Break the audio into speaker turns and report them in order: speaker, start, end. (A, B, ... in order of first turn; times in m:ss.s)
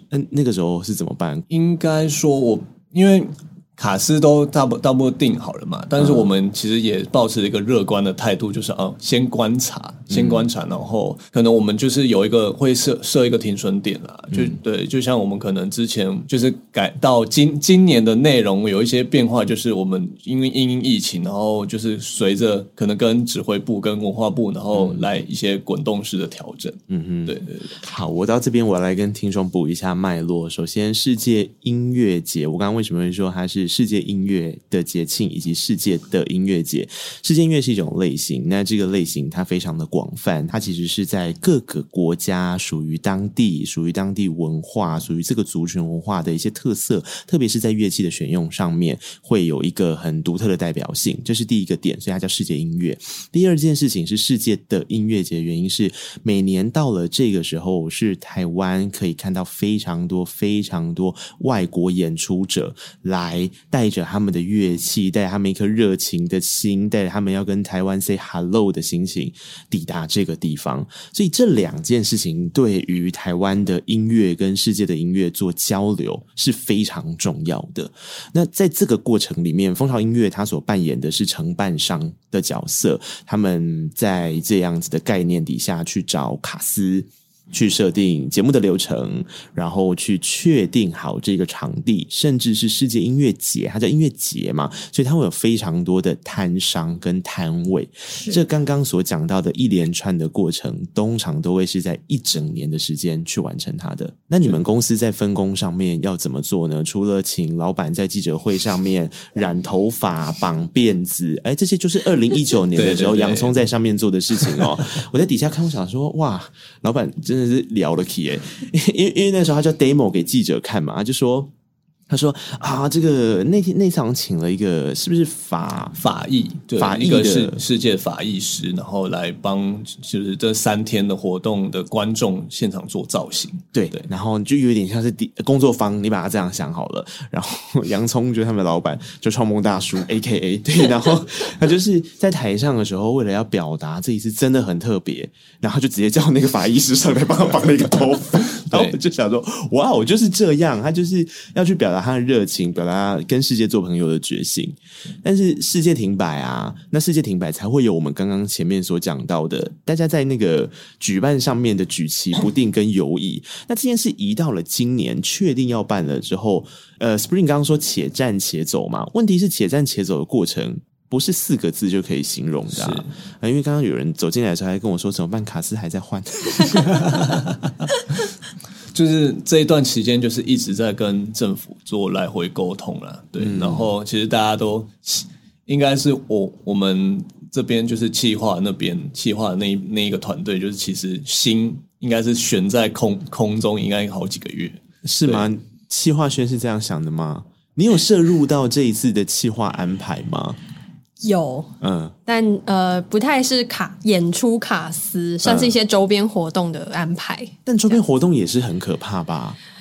0:00.1-0:01.5 A
0:01.5-0:27.8 B
0:10.1-0:10.5 A
0:14.3-0:14.6 A
0:24.7-0:25.1 A
0:26.9-2:01.5 A
1:38.1-1:38.4 C
1:52.7-1:53.6 B
1:54.4-1:54.8 B
2:02.1-2:06.0 A
2:06.0-2:14.0 B
2:06.8-2:07.6 A
2:13.7-2:57.2 A
2:28.6-2:29.0 B
2:52.7-2:53.1 B
2:56.9-2:57.7 B
2:58.9-3:15.5 B
3:03.4-3:03.9 A
3:15.0-3:20.6 A
3:21.2-3:21.7 C
3:21.8-3:22.1 A
3:22.2-3:27.5 C
3:25.4-3:25.7 A
3:27.6-3:29.6 A